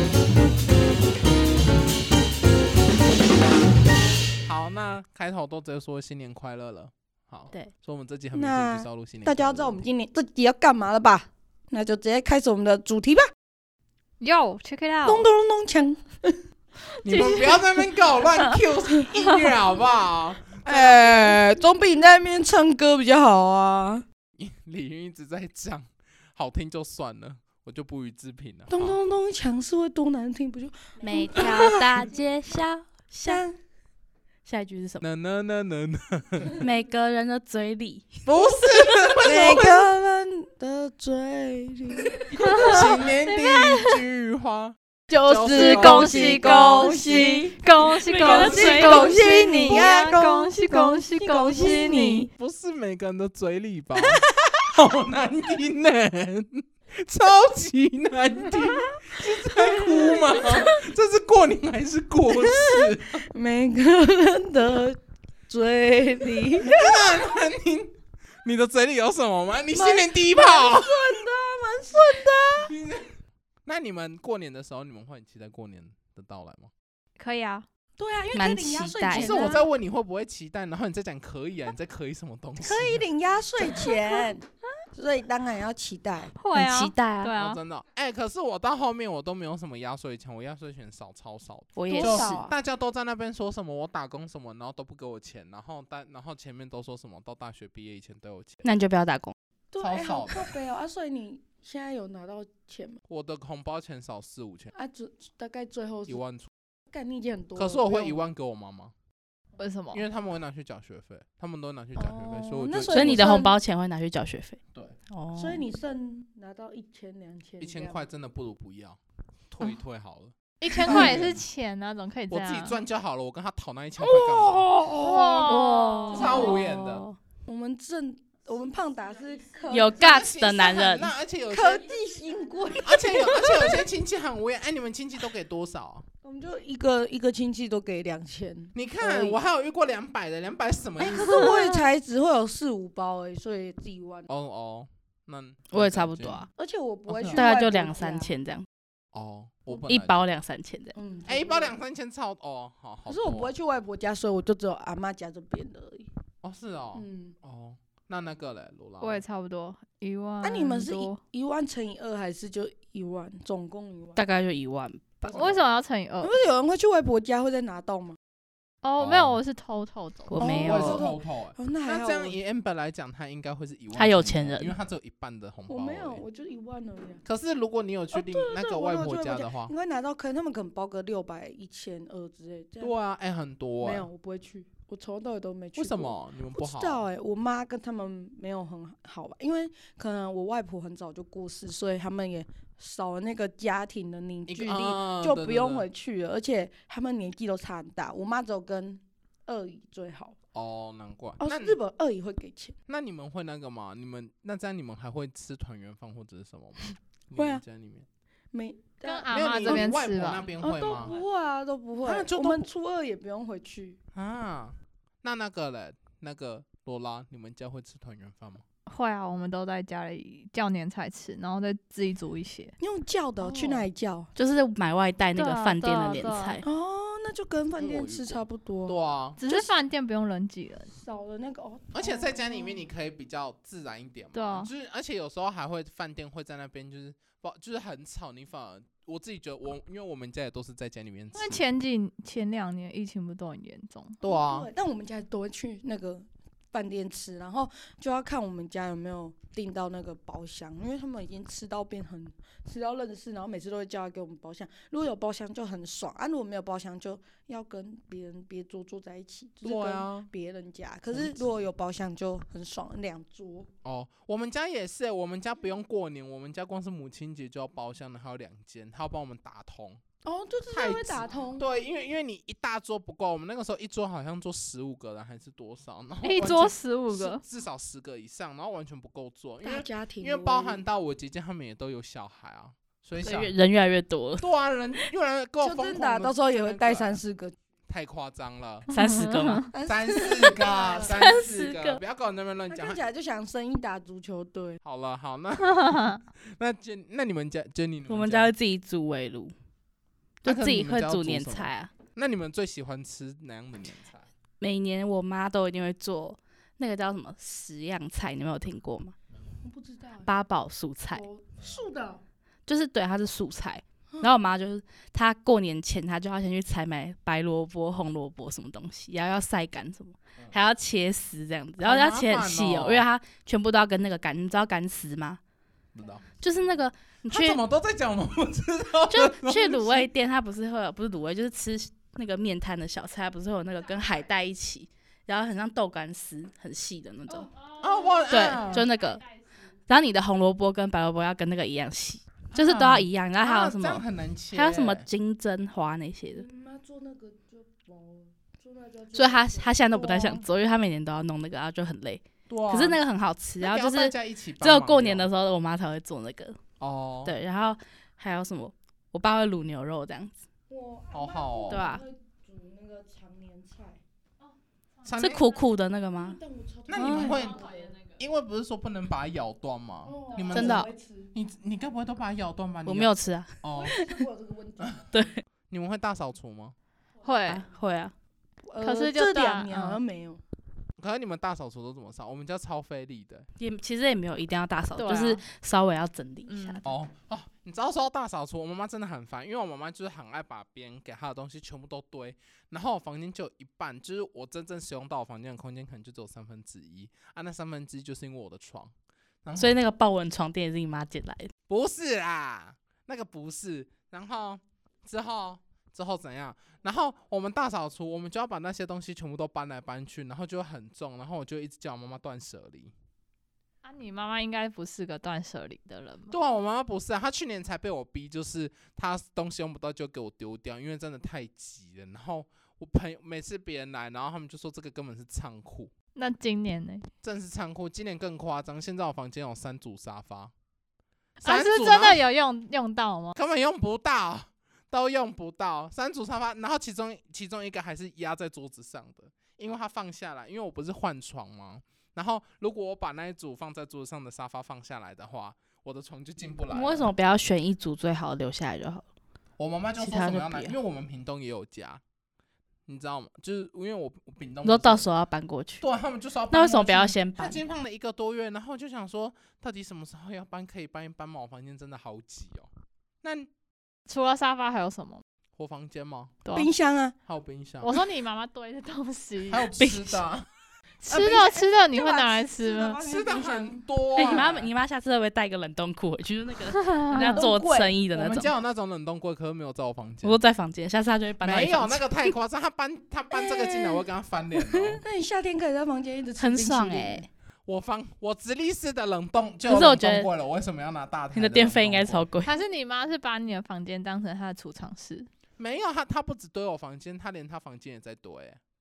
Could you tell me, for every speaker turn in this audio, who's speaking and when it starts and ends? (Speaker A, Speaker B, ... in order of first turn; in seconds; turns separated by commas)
Speaker A: 4.5-9.8, Speaker B: 8.3-13.3, Speaker C: 14.2-15.3, Speaker B: 15.1-16.4, Speaker C: 17.0-17.8, Speaker A: 17.0-21.6, Speaker B: 20.7-24.1, Speaker A: 24.4-29.0, Speaker B: 28.7-31.9, Speaker D: 31.0-33.4, Speaker C: 31.1-31.5, Speaker B: 33.2-33.6, Speaker D: 34.5-35.0, Speaker A: 35.0-36.6, Speaker D: 36.6-38.2, Speaker A: 38.3-39.8, Speaker B: 39.2-42.9, Speaker C: 42.4-43.0, Speaker A: 42.6-47.3, Speaker D: 45.1-50.0, Speaker B: 45.4-47.6, Speaker C: 45.4-52.3, Speaker B: 48.2-52.3, Speaker D: 51.6-52.2, Speaker A: 52.3-63.2, Speaker B: 59.4-60.5, Speaker B: 62.4-67.3, Speaker A: 66.6-71.2, Speaker B: 69.7-72.7, Speaker A: 72.7-76.7, Speaker C: 77.2-77.7, Speaker B: 78.0-79.7, Speaker D: 78.3-79.3, Speaker A: 79.1-83.0, Speaker B: 82.6-84.4, Speaker B: 85.0-86.3, Speaker C: 86.4-87.6, Speaker D: 86.5-87.3, Speaker A: 87.3-98.6, Speaker D: 91.8-92.5, Speaker B: 91.9-92.5, Speaker D: 98.6-99.3, Speaker B: 99.7-103.0, Speaker A: 99.8-100.5, Speaker A: 103.1-104.7, Speaker B: 104.7-106.2, Speaker A: 106.1-106.5, Speaker B: 106.9-108.2, Speaker A: 107.6-108.9, Speaker C: 109.6-110.0, Speaker A: 109.9-113.4, Speaker B: 112.0-113.5, Speaker D: 112.9-115.6, Speaker B: 115.4-118.0, Speaker A: 117.6-119.0, Speaker A: 119.5-121.4, Speaker C: 120.7-122.8, Speaker B: 120.9-121.2, Speaker A: 122.3-124.9, Speaker B: 124.0-125.5, Speaker C: 124.9-126.5, Speaker D: 125.3-127.2, Speaker B: 126.1-126.6, Speaker A: 126.1-127.0, Speaker B: 127.5-130.1, Speaker D: 129.7-131.1, Speaker A: 130.0-131.9, Speaker B: 131.5-133.8, Speaker A: 132.8-136.1, Speaker B: 136.2-139.4, Speaker A: 138.7-141.6, Speaker B: 141.0-144.3, Speaker A: 144.3-146.4, Speaker D: 145.7-146.5, Speaker B: 146.6-148.3, Speaker A: 147.1-147.4, Speaker D: 147.3-148.7, Speaker A: 149.1-150.1, Speaker D: 149.9-150.9, Speaker B: 150.9-151.8, Speaker A: 151.3-153.5, Speaker B: 153.1-156.1, Speaker A: 156.4-159.2, Speaker B: 156.9-157.3, Speaker C: 159.0-161.2, Speaker B: 160.4-164.2, Speaker D: 164.2-165.3, Speaker A: 165.3-165.6, Speaker C: 165.3-166.4, Speaker B: 166.2-168.2, Speaker C: 168.8-170.6, Speaker A: 169.0-169.4, Speaker D: 170.3-171.0, Speaker B: 170.4-172.4, Speaker A: 170.6-176.2, Speaker D: 173.9-174.7, Speaker B: 175.7-177.2, Speaker A: 177.2-179.7, Speaker B: 178.1-182.9, Speaker A: 182.8-184.1, Speaker B: 183.8-200.3, Speaker A: 185.8-187.1, Speaker A: 194.5-195.9, Speaker A: 200.5-201.8, Speaker B: 201.4-202.8, Speaker A: 202.9-208.1, Speaker B: 207.3-207.6, Speaker B: 208.5-209.9, Speaker C: 209.1-210.5, Speaker A: 209.3-211.2, Speaker B: 210.6-214.0, Speaker A: 212.0-212.7, Speaker A: 214.1-218.6, Speaker C: 218.9-222.7, Speaker B: 222.8-224.3, Speaker D: 224.4-226.6, Speaker C: 225.4-226.6, Speaker B: 226.6-229.0, Speaker A: 227.8-229.4, Speaker C: 229.4-230.9, Speaker B: 229.5-229.7, Speaker B: 230.9-232.8, Speaker A: 231.9-241.6, Speaker C: 234.3-234.7, Speaker C: 241.3-244.2, Speaker A: 244.2-244.7, Speaker B: 244.2-263.7, Speaker A: 259.6-260.3, Speaker A: 263.8-270.0, Speaker B: 270.2-271.6, Speaker A: 270.7-283.5, Speaker C: 276.2-277.4, Speaker B: 279.6-280.8, Speaker D: 283.2-284.5, Speaker A: 284.4-287.2, Speaker B: 285.6-287.6, Speaker A: 287.9-288.9, Speaker D: 288.9-289.7, Speaker C: 288.9-289.7, Speaker B: 289.7-291.2, Speaker A: 289.9-293.0, Speaker D: 291.1-292.0, Speaker B: 292.7-294.8, Speaker A: 294.8-298.5, Speaker C: 295.6-296.2, Speaker D: 298.1-299.5, Speaker D: 300.4-301.9, Speaker A: 300.5-304.3, Speaker D: 304.6-309.1, Speaker B: 309.6-310.3, Speaker D: 310.2-311.2, Speaker B: 311.1-312.2, Speaker D: 312.7-325.4, Speaker A: 321.8-323.1, Speaker A: 325.9-326.2, Speaker D: 326.4-327.6, Speaker A: 327.3-330.1, Speaker D: 329.1-337.5, Speaker C: 337.7-339.2, Speaker A: 337.8-338.9, Speaker D: 338.3-339.2, Speaker D: 339.9-346.4, Speaker A: 342.5-345.1, Speaker B: 346.3-350.4, Speaker D: 349.1-356.6, Speaker A: 352.5-353.0, Speaker A: 353.6-355.3, Speaker A: 356.8-357.3, Speaker D: 357.2-360.4, Speaker B: 360.7-364.0, Speaker A: 361.1-361.9, Speaker D: 361.7-362.0, Speaker A: 365.1-365.6, Speaker D: 365.1-366.4, Speaker B: 366.2-367.9, Speaker A: 366.9-374.0, Speaker C: 367.0-367.5, Speaker B: 370.1-371.3, Speaker D: 370.5-370.9, Speaker D: 372.9-374.2, Speaker B: 373.8-375.0, Speaker D: 375.1-375.4, Speaker A: 375.7-376.8, Speaker C: 377.2-377.6, Speaker D: 377.5-378.1, Speaker B: 378.7-380.4, Speaker C: 378.8-380.0, Speaker A: 381.0-383.5, Speaker D: 383.6-386.8, Speaker C: 385.0-385.4, Speaker C: 386.5-386.9, Speaker A: 386.8-398.9, Speaker A: 399.4-399.8, Speaker D: 399.6-401.5, Speaker A: 401.7-412.9, Speaker C: 413.8-416.3, Speaker A: 416.3-425.9, Speaker C: 426.1-427.1, Speaker A: 427.2-430.5, Speaker C: 431.4-433.4, Speaker A: 431.4-432.2, Speaker A: 433.4-447.1, Speaker D: 446.7-449.0, Speaker A: 449.6-452.0, Speaker D: 450.0-450.7, Speaker A: 452.9-455.1, Speaker D: 454.6-455.9, Speaker A: 455.8-462.7, Speaker D: 456.5-457.6, Speaker A: 463.2-463.5, Speaker C: 464.1-465.2, Speaker A: 465.6-466.4, Speaker C: 466.4-466.7, Speaker B: 466.5-467.2, Speaker A: 467.3-468.0, Speaker C: 467.8-469.7, Speaker A: 469.5-470.5, Speaker D: 469.8-470.2, Speaker B: 471.1-474.4, Speaker C: 471.1-473.0, Speaker A: 473.0-474.7, Speaker D: 474.2-478.5, Speaker C: 476.9-477.4, Speaker B: 477.1-478.0, Speaker A: 478.1-480.4, Speaker D: 480.2-482.3, Speaker A: 481.4-485.0, Speaker B: 483.3-484.0, Speaker B: 485.0-487.2, Speaker D: 486.4-487.3, Speaker A: 487.7-492.3, Speaker D: 489.6-490.3, Speaker D: 491.4-492.5, Speaker C: 492.4-495.3, Speaker A: 495.6-498.6